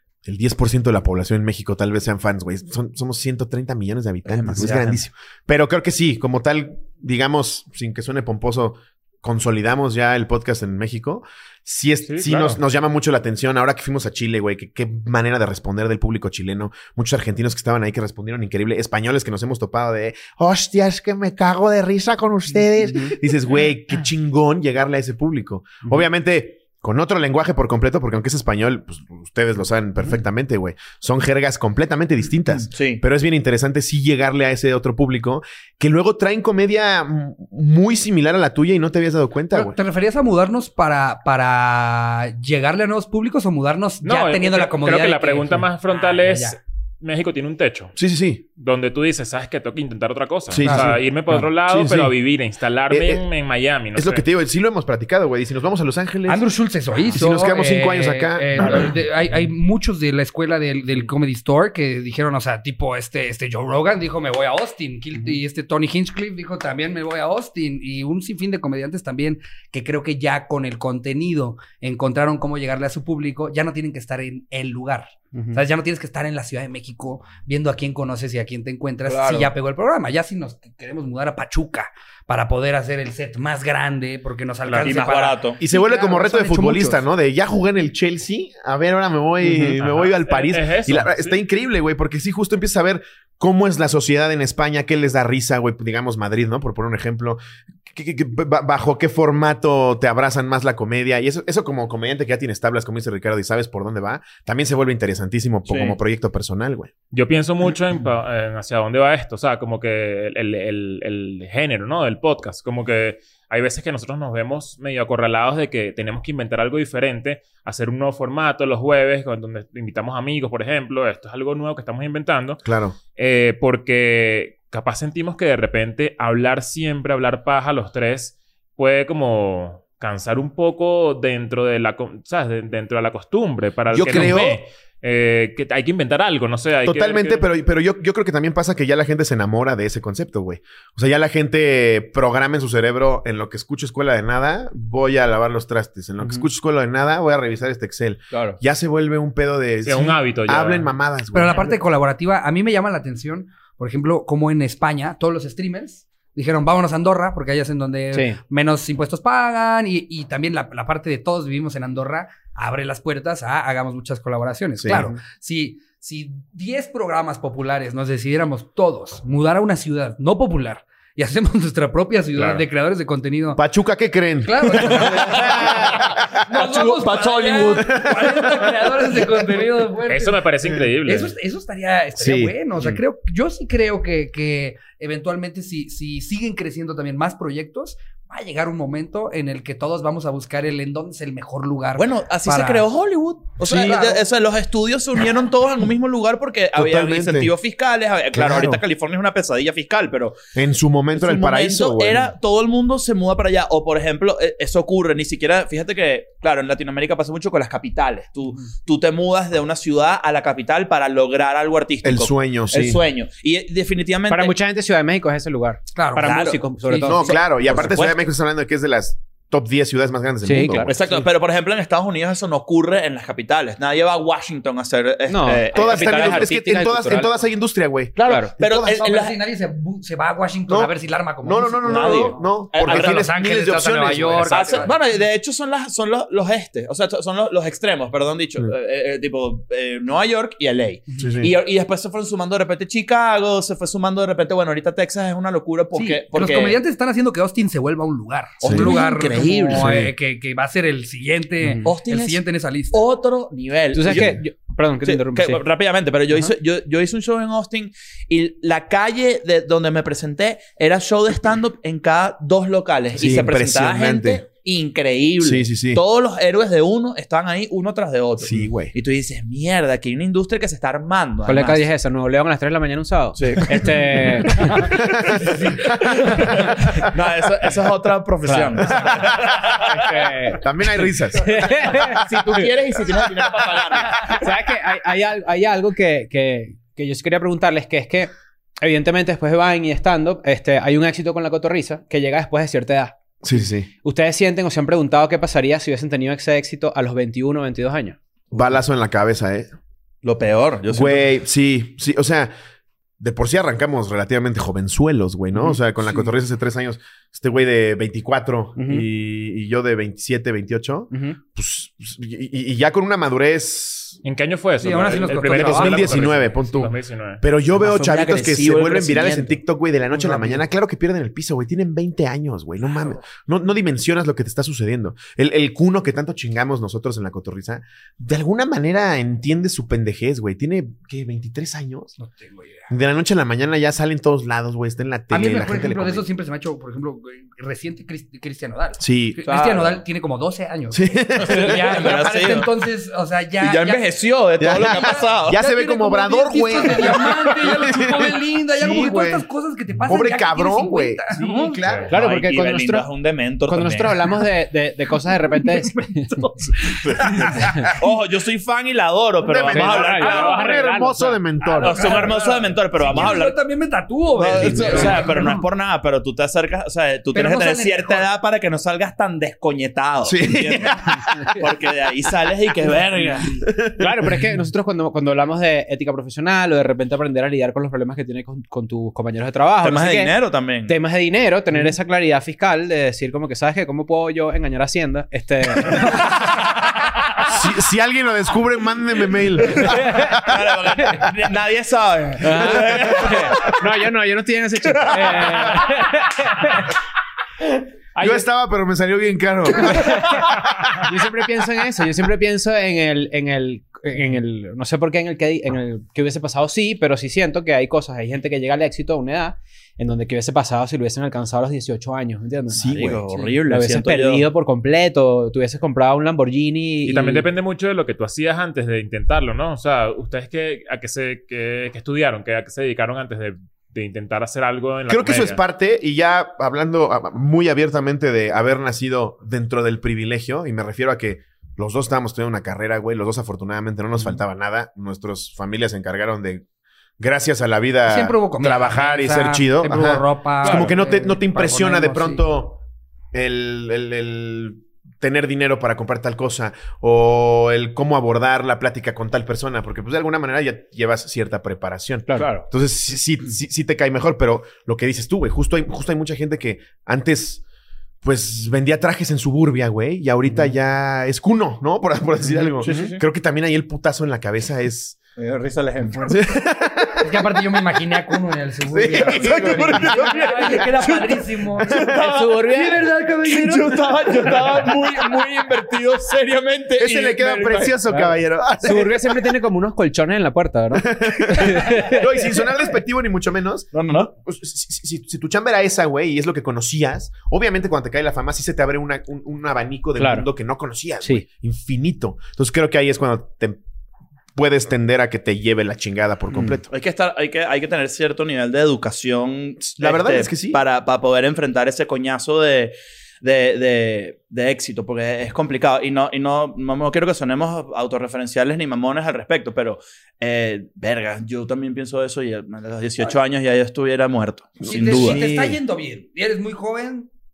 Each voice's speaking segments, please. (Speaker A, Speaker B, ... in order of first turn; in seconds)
Speaker A: 0.2-39.8, 48.0-48.4, 50.5-52.2, 52.9-53.2, 53.9-56.4, 57.1-58.9, 85.6-106.9, 122.7-123.0, 133.9-134.6, 136.8-151.7, 164.8-165.1, 173.6-176.4, 177.9-178.3, 182.2-182.6, 196.8-197.5, 198.3-198.8, 200.6-202.3, 212.0-213.0, 217.1-220.9, 225.7-229.0, 230.7-230.9, 231.4-234.9, 241.2-241.5, 248.6-249.0, 249.7-250.1, 263.2-264.4, 265.4-266.0, 268.4-268.9, 274.9-276.0, 278.9-279.9, 280.5-282.1, 293.4-293.9, 298.5-299.7, 300.9-302.5, 303.2-314.2, 315.3-332.1, 332.9-336.3, 339.0-339.4, 340.9-342.1, 344.6-349.5, 350.1-352.1, 359.4-362.2, 370.2-371.6, 373.6-374.4, 387.5-390.7, 392.7-393.7, 398.2-401.0, 412.7-413.2, 425.1-436.6, 437.2-442.8, 443.3-457.6, 458.2-465.2, 466.3-468.4, 468.9-471.1, 471.9-472.2, 477.0-479.3, 480.9-493.8, 494.6-496.9, 499.9-500.8, 514.8-515.8
Speaker B: 4.3-5.0, 32.7-33.0, 79.1-79.5, 84.8-85.6, 105.7-106.0, 148.3-148.6, 174.7-178.6, 192.0-200.4, 201.2-214.5, 216.2-218.2, 220.9-226.5, 228.2-229.4, 231.8-233.3, 234.4-246.8, 248.6-250.1, 251.8-254.4, 255.0-271.9, 273.4-274.8, 276.1-280.1, 282.0-284.5, 300.2-301.3, 317.8-319.6, 339.4-340.0, 341.4-342.7, 343.6-345.6, 352.1-354.2, 357.1-360.6, 361.8-363.6, 364.4-373.6, 379.8-380.9, 386.1-386.6, 389.6-393.8, 394.9-395.8, 412.8-414.5, 440.6-440.9, 452.4-452.6, 462.8-463.2, 465.4-466.3, 469.2-472.6, 473.4-478.0, 483.9-484.3, 496.9-515.5
Speaker C: 12.1-12.6, 44.0-48.0, 48.5-54.3, 84.7-84.9, 89.8-91.4, 107.1-137.5, 149.8-150.9, 180.1-181.3, 314.2-317.4, 351.8-352.1, 417.1-425.6
Speaker D: 39.5-46.6, 50.6-51.0, 56.3-87.0, 151.3-173.6, 174.4-180.5, 181.1-192.9, 193.6-194.2, 215.9-217.2, 228.8-235.0, 241.1-241.3, 245.9-253.0, 275.4-276.6, 314.8-316.4, 332.2-332.9, 335.3-344.1, 344.7-352.1, 355.6-358.0, 361.6-365.6, 367.3-368.3, 438.1-442.4, 467.2-472.1, 472.7-474.7, 514.9-517.3
Speaker E: 75.3-75.6, 89.4-89.8, 158.1-158.4, 164.9-165.2, 214.3-217.4, 220.4-221.2, 225.3-227.4, 228.2-228.5, 251.6-251.9, 253.9-255.6, 271.5-274.9, 278.4-279.0, 279.9-280.6, 281.4-282.7, 284.3-293.2, 294.0-298.2, 308.8-309.1, 311.1-311.4, 352.1-353.1, 353.7-356.5, 357.6-357.8, 359.7-361.4, 364.8-365.1, 374.0-380.4, 380.9-386.2, 389.8-390.4, 392.4-396.9, 398.2-398.4, 399.9-417.5, 452.3-452.5, 460.5-460.7, 462.9-463.1, 472.1-473.0, 478.1-482.2, 490.2-490.5